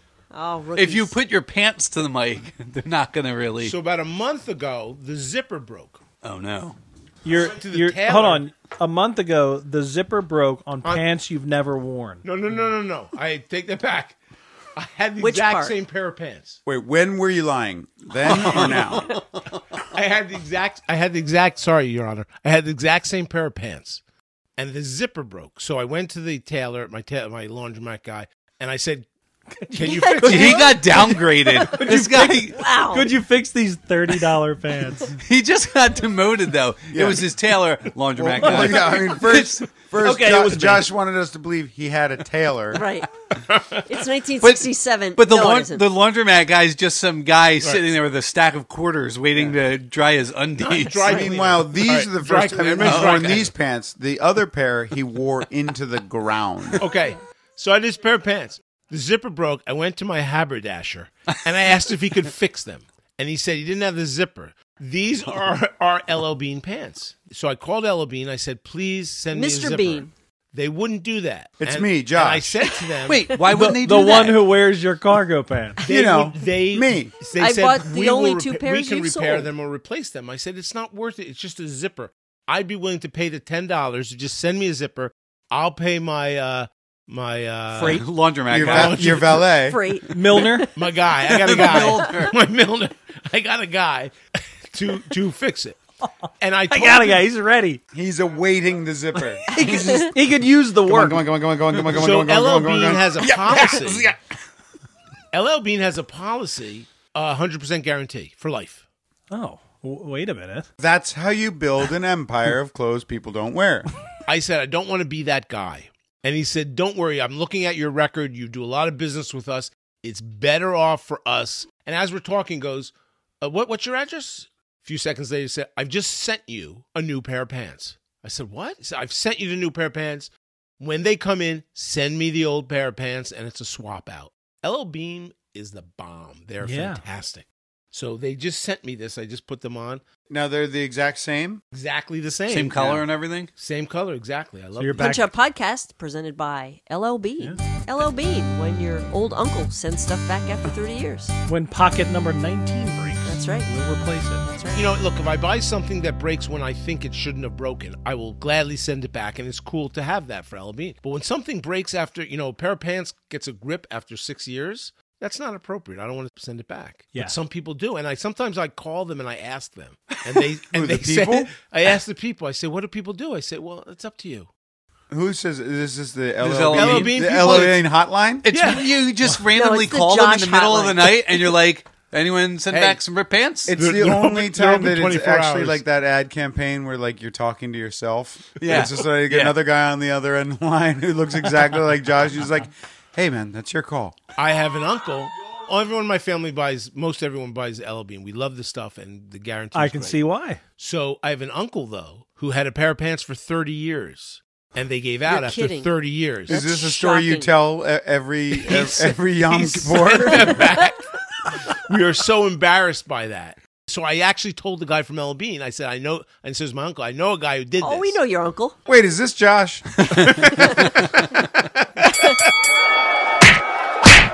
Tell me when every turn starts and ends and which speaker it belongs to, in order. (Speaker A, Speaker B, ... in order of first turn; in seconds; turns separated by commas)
Speaker A: 0.3-1.2, Speaker B: 0.8-3.8, Speaker C: 3.6-6.0, Speaker B: 6.2-6.8, Speaker D: 7.2-12.2, Speaker C: 7.3-8.5, Speaker C: 12.2-14.2, Speaker C: 14.8-16.6, Speaker A: 15.2-15.8, Speaker E: 16.6-19.2, Speaker B: 18.3-19.2, Speaker C: 19.8-24.0, Speaker C: 24.6-29.1, Speaker C: 29.7-31.2, Speaker A: 29.8-31.8, Speaker B: 30.2-32.5, Speaker D: 31.8-35.1, Speaker A: 32.4-33.1, Speaker B: 35.1-39.6, Speaker E: 36.9-37.2, Speaker E: 38.1-42.8, Speaker D: 38.4-39.2, Speaker D: 40.0-40.9, Speaker A: 42.7-43.1, Speaker C: 43.5-43.8, Speaker A: 43.8-45.9, Speaker B: 44.4-51.3, Speaker C: 47.6-47.9, Speaker C: 49.3-49.6, Speaker C: 50.6-53.5, Speaker E: 51.0-56.8, Speaker B: 52.8-53.4, Speaker C: 56.8-73.4, Speaker A: 69.3-70.1, Speaker E: 71.6-72.7, Speaker B: 73.0-74.5, Speaker D: 73.4-75.8, Speaker C: 75.8-89.5, Speaker E: 75.9-77.1, Speaker A: 77.3-79.5, Speaker B: 87.7-89.3, Speaker E: 88.5-89.8, Speaker A: 89.5-90.7, Speaker D: 90.1-90.7, Speaker C: 90.7-94.1, Speaker B: 91.2-92.4, Speaker A: 91.5-92.2, Speaker C: 94.7-95.8, Speaker C: 96.4-97.2, Speaker D: 96.7-97.8, Speaker E: 97.9-100.3, Speaker D: 99.2-101.2, Speaker A: 99.5-100.1, Speaker E: 100.8-104.2, Speaker C: 101.8-104.1, Speaker C: 105.3-108.8, Speaker D: 109.3-110.7, Speaker E: 110.8-113.9, Speaker C: 114.2-140.0, Speaker D: 136.6-137.0, Speaker E: 140.3-141.6, Speaker C: 141.7-145.2, Speaker B: 142.5-143.5, Speaker D: 144.8-145.3, Speaker A: 145.0-151.3, Speaker D: 151.5-154.4, Speaker A: 153.2-153.8, Speaker A: 154.4-154.9, Speaker C: 154.7-174.5, Speaker E: 170.7-171.5, Speaker E: 175.1-178.4, Speaker B: 176.4-177.8, Speaker C: 176.7-177.9, Speaker B: 178.4-183.7, Speaker C: 178.5-179.3, Speaker A: 179.5-181.4, Speaker E: 182.7-183.0, Speaker E: 183.6-194.2, Speaker C: 183.8-185.8, Speaker B: 188.6-189.6, Speaker C: 194.3-200.2, Speaker D: 199.7-200.6, Speaker C: 200.8-206.6, Speaker A: 205.3-205.9, Speaker A: 206.5-207.6, Speaker E: 206.5-210.7, Speaker C: 208.5-218.2, Speaker A: 217.8-218.8, Speaker E: 218.8-220.1, Speaker B: 220.0-221.2, Speaker A: 220.5-220.8